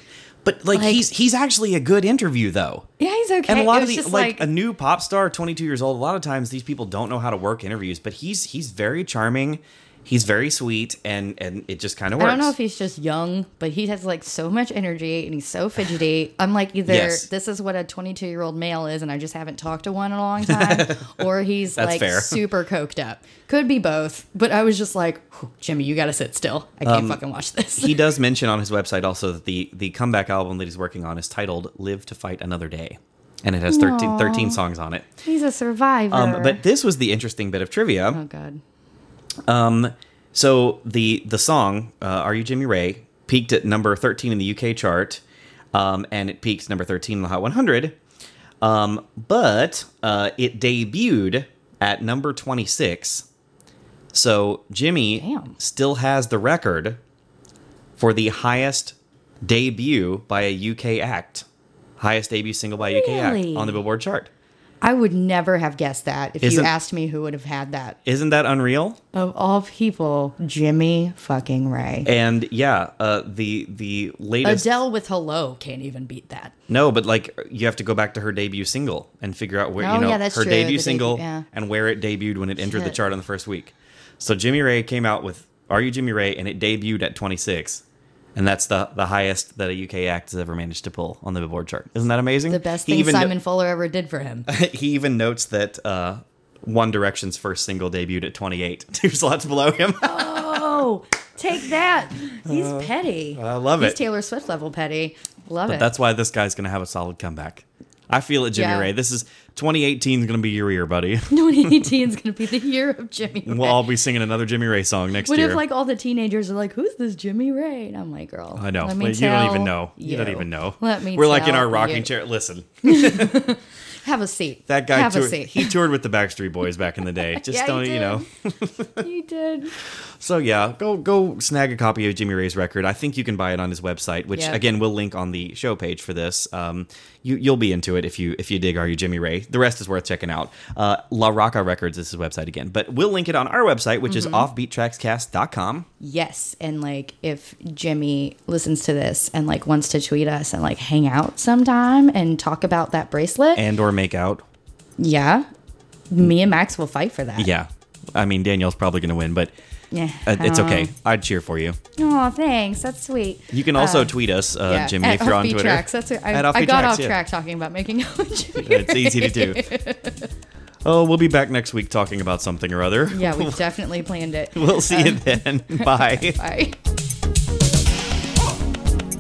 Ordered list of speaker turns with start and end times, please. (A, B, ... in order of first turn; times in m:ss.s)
0:00.4-0:02.8 A
0:00.7-0:01.0 B
0:03.0-0:04.5 B
0:03.4-0:12.5 A
0:12.2-0:28.0 B
0:16.9-0:17.3 A
0:20.4-0:21.2 A
0:21.8-0:22.4 A
0:26.8-0:27.2 A
0:27.8-0:35.0 A
0:33.7-0:34.6 B
0:35.2-0:36.6 B
0:36.1-0:38.2 A
0:38.1-0:38.6 B
0:39.5-0:45.2 A
0:45.7-0:48.0 A
0:48.6-0:53.2 A
0:54.1-0:57.0 A
0:55.1-0:55.6 B
0:58.0-1:01.4 A
1:02.0-1:04.3 A
1:02.8-1:03.8 B
1:04.8-1:08.0 B
1:06.4-1:06.7 A
1:08.0-1:09.0 A
1:09.1-1:12.1 B
1:12.0-1:14.7 A
1:14.4-1:16.5 B
1:16.7-1:27.8 A
1:19.8-1:21.4 B
1:22.6-1:22.9 B
1:28.4-1:33.3 A
1:32.5-1:34.5 B
1:34.5-1:40.8 A
1:40.0-1:45.9 B
1:42.4-1:44.0 A
1:45.7-1:51.9 A
1:48.5-1:48.9 B
1:51.3-1:53.9 B
1:53.4-1:55.6 A
1:55.2-2:02.1 B
1:58.6-2:03.4 A
2:02.8-2:05.7 B
2:04.7-2:09.0 A
2:07.3-2:08.2 B
2:09.0-2:09.7 B
2:10.2-2:25.9 A
2:14.3-2:14.6 B
2:24.1-2:24.5 B
2:26.0-2:33.6 B
2:33.6-2:34.4 A
2:35.0-2:35.4 B
2:36.1-2:37.5 B
2:37.4-2:39.5 A
2:39.9-2:40.9 B
2:40.3-2:41.8 A
2:42.0-2:44.1 B
2:43.5-2:47.2 A
2:44.6-2:50.3 B
2:48.6-2:49.6 A
2:50.8-2:53.6 A
2:53.1-2:56.8 B
2:54.5-2:56.4 A